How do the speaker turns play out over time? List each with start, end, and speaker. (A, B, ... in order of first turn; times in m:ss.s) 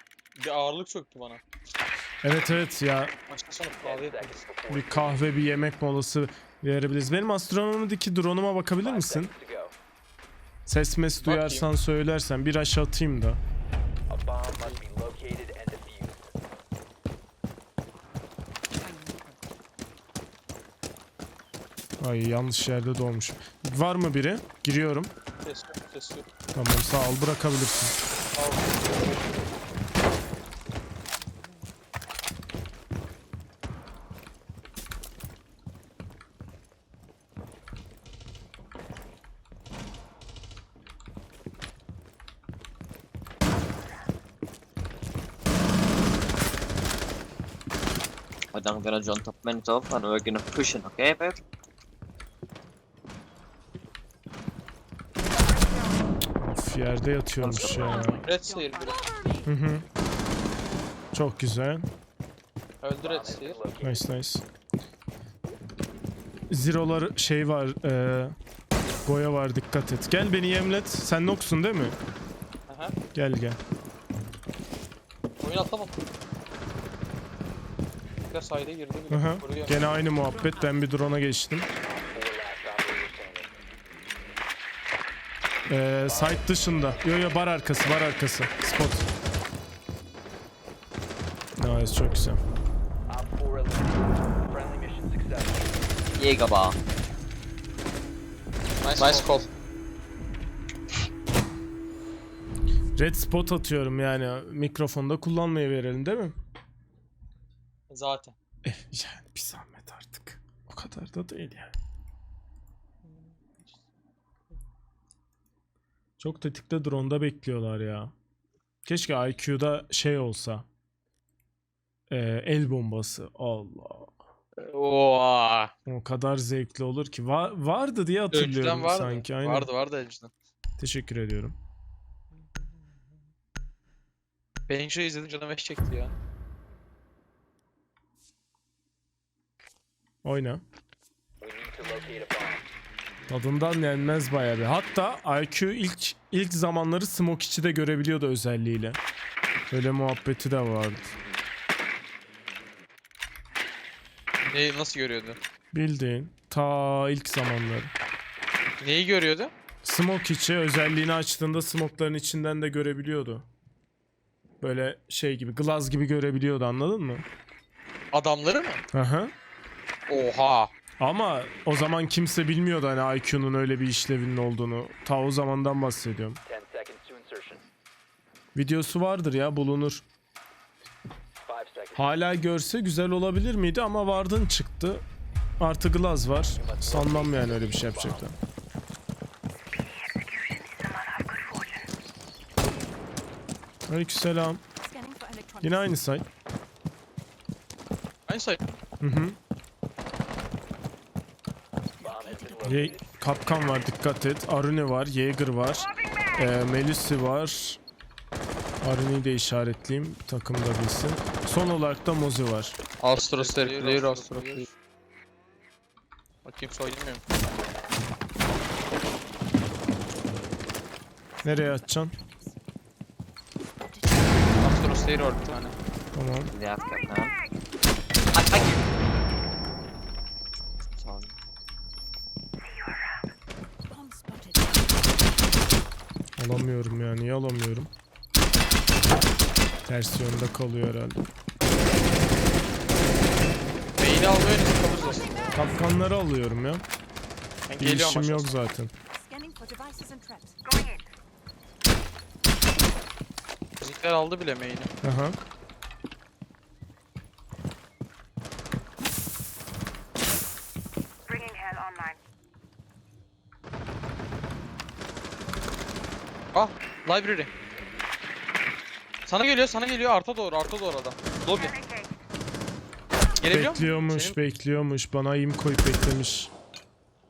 0:00.4-0:01.4 A
0:02.2-0:03.1 B
0:03.3-0:04.4 A
0:03.8-0:05.2 C
0:04.7-0:09.3 B
0:08.8-0:09.8 C
0:10.7-0:13.4 B
0:11.2-0:11.7 A
0:14.1-0:16.3 C
0:18.8-0:19.4 D
0:22.0-0:25.1 B
0:25.4-0:26.3 A
0:26.5-0:28.0 B
0:28.4-0:29.2 A
0:48.5-0:51.4 E
0:56.4-0:58.2 B
0:57.4-0:57.8 E
0:57.5-0:59.5 D
0:58.2-0:59.1 A
0:59.4-0:59.8 B
1:01.1-1:01.9 B
1:02.8-1:03.6 A
1:03.0-1:04.1 C
1:03.8-1:04.4 B
1:06.5-1:08.4 B
1:09.1-1:12.0 B
1:12.7-1:13.0 A
1:13.1-1:13.6 B
1:15.4-1:16.0 A
1:18.3-1:19.8 A
1:19.1-1:21.7 B
1:20.2-1:20.7 D
1:21.8-1:23.5 C
1:25.7-1:29.1 B
1:26.0-1:27.1 C
1:31.6-1:32.4 B
1:33.1-1:36.0 C
1:36.2-1:36.8 E
1:38.8-1:39.5 A
1:39.0-1:39.2 F
1:43.0-1:46.4 B
1:47.9-1:48.4 A
1:48.6-1:51.7 B
1:56.2-1:58.1 B
1:58.9-2:00.7 B
2:02.1-2:04.2 B
2:04.6-2:05.7 F
2:05.9-2:09.7 B
2:08.3-2:10.3 F
2:10.8-2:11.6 B
2:14.7-2:16.2 F
2:20.2-2:20.6 B
2:21.4-2:22.7 C
2:23.3-2:29.0 B
2:29.7-2:31.2 B
2:34.4-2:35.4 F
2:35.7-2:37.9 B
2:38.8-2:39.5 F
2:39.8-2:43.4 B
2:44.6-2:47.2 B
2:48.1-2:48.8 F
2:48.9-2:49.3 B
2:50.1-2:50.7 F
2:51.0-2:56.4 B
2:56.4-2:57.6 C
2:58.6-3:00.0 B
3:01.4-3:02.2 C
3:02.0-3:05.0 B
3:05.6-3:08.4 B
3:06.5-3:08.2 C
3:10.3-3:11.7 D
3:13.9-3:14.6 B
3:14.8-3:16.0 D
3:15.6-3:16.2 B
3:18.3-3:18.6 F
3:19.0-3:19.4 B
3:22.0-3:23.0 C
3:22.1-3:22.7 D
3:22.6-3:27.8 B
3:28.8-3:32.8 B
3:33.0-3:34.7 F
3:33.2-3:34.7 A
3:36.4-3:37.2 F
3:41.4-3:42.5 D
3:41.4-3:42.1 B
3:43.9-3:44.4 D
3:44.6-3:45.8 F
3:46.2-3:46.5 B
3:46.5-3:47.4 E
3:48.3-3:48.8 E
3:50.9-3:51.4 E
3:53.9-3:55.0 D
3:56.4-3:57.9 B
3:59.9-4:01.3 B
4:04.0-4:05.6 F
4:05.6-4:06.8 B
4:07.7-4:08.6 F
4:07.8-4:08.9 B
4:09.1-4:11.0 D
4:13.8-4:14.9 F
4:15.0-4:15.4 B
4:21.3-4:22.1 D
4:26.5-4:27.5 F
4:29.3-4:31.8 F
4:33.4-4:34.4 F
4:33.4-4:36.5 B